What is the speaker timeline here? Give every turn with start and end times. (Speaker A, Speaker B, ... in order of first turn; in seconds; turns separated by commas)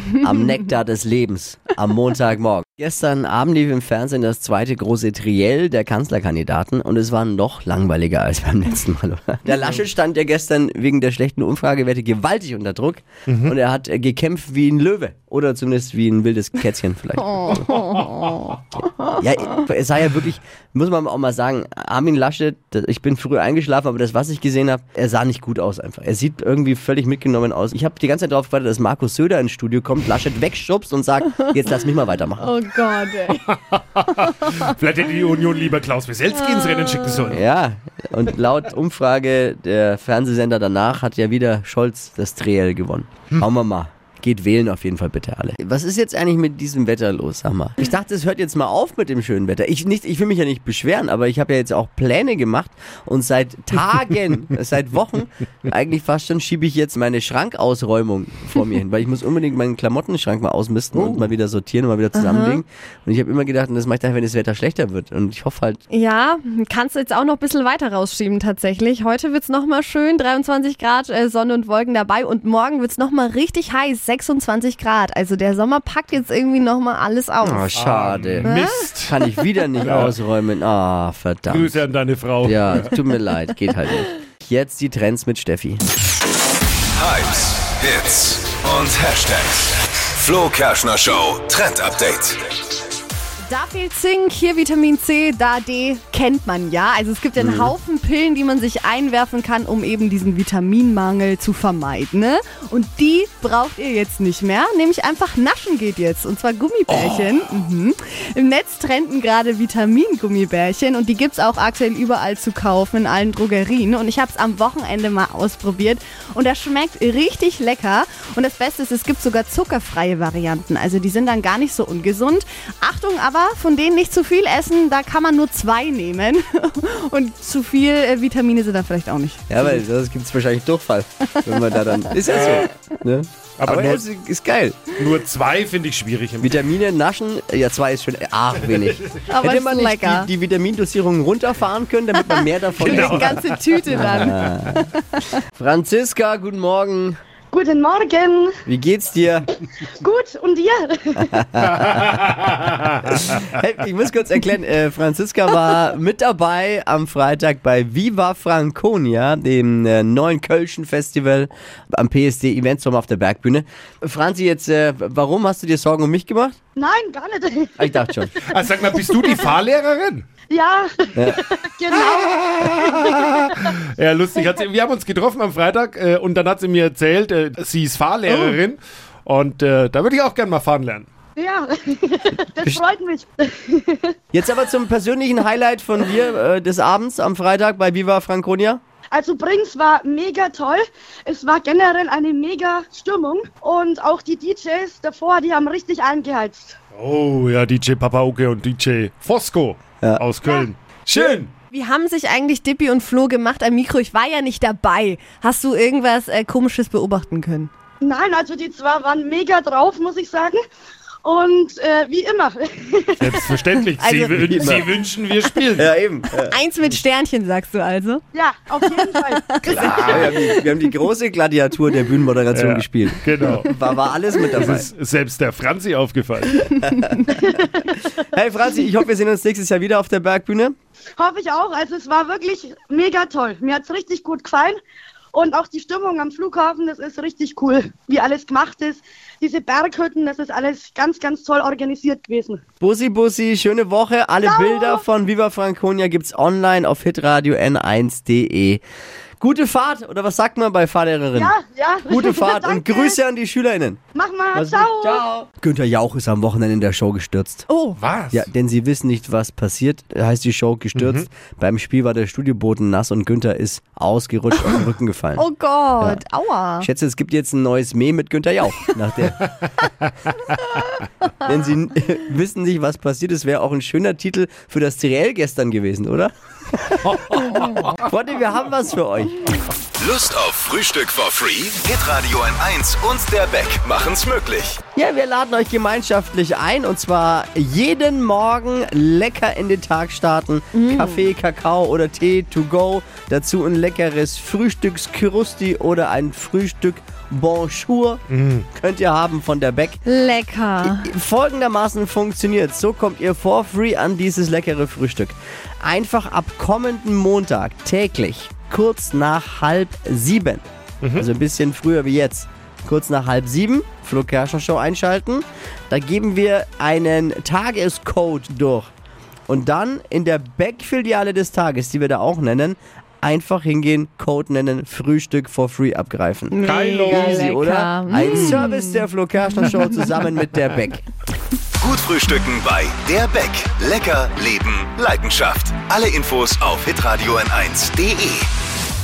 Speaker A: 0.2-17.8, Speaker B: 13.3-13.6, Speaker C: 17.2-19.2, Speaker B: 18.0-18.5, Speaker A: 19.2-32.5, Speaker C: 32.4-33.6, Speaker B: 33.5-37.4, Speaker C: 34.2-34.6, Speaker C: 36.5-37.3, Speaker A: 37.3-65.8, Speaker B: 60.9-61.3, Speaker C: 62.1-62.6, Speaker C: 65.9-77.7, Speaker A: 77.4-78.5, Speaker B: 77.7-79.2, Speaker C: 78.4-78.9, Speaker A: 79.0-81.8, Speaker B: 79.8-80.1, Speaker B: 81.5-83.0, Speaker A: 82.4-85.8, Speaker D: 87.0-92.5, Speaker C: 93.5-129.8, Speaker A: 97.4-97.7, Speaker A: 129.5-134.8, Speaker C: 131.3-132.6, Speaker B: 132.3-132.7, Speaker B: 133.6-134.1, Speaker B: 135.0-136.6, Speaker A: 136.4-144.8, Speaker C: 139.3-140.3, Speaker C: 142.2-145.2, Speaker B: 142.8-144.4, Speaker A: 145.5-147.2, Speaker E: 147.5-148.6, Speaker A: 148.7-149.5, Speaker E: 150.0-151.3, Speaker A: 151.2-152.2, Speaker B: 151.8-153.2, Speaker A: 153.1-166.6, Speaker E: 166.8-168.0, Speaker A: 167.8-168.3, Speaker B: 168.5-170.2, Speaker E: 170.5-173.2, Speaker B: 172.0-181.1, Speaker C: 178.3-178.6, Speaker E: 181.4-184.2, Speaker A: 184.3-188.8, Speaker E: 189.1-196.8, Speaker B: 196.9-201.5, Speaker C: 201.7-207.7, Speaker E: 208.0-210.6, Speaker E: 211.2-213.4, Speaker B: 213.2-215.9, Speaker C: 214.0-214.7, Speaker A: 214.4-214.9, Speaker A: 215.8-216.6, Speaker C: 216.4-220.9, Speaker E: 218.3-219.4, Speaker B: 219.6-220.3, Speaker A: 219.7-224.9, Speaker B: 222.5-223.8, Speaker B: 224.5-226.8, Speaker A: 226.8-230.8, Speaker E: 231.2-234.8, Speaker E: 235.3-242.6, Speaker A: 242.8-248.8, Speaker E: 244.4-245.0, Speaker A: 249.4-251.5, Speaker E: 251.4-253.2, Speaker A: 252.1-254.0, Speaker E: 254.2-255.2, Speaker A: 254.5-257.6, Speaker C: 257.7-258.0, Speaker B: 258.0-258.5, Speaker A: 258.3-265.5, Speaker B: 261.0-261.3, Speaker C: 265.4-266.9, Speaker A: 266.8-269.5, Speaker A: 271.4-279.6, Speaker B: 277.1-278.1, Speaker D: 280.0-284.8, Speaker A: 284.9-300.0, Speaker C: 290.7-291.2, Speaker B: 298.3-298.7, Speaker C: 300.1-301.1, Speaker A: 300.8-318.9, Speaker B: 311.0-311.3, Speaker A: 319.5-331.1, Speaker C: 326.5-329.1, Speaker B: 326.6-327.5, Speaker C: 329.6-330.0, Speaker D: 331.8-338.5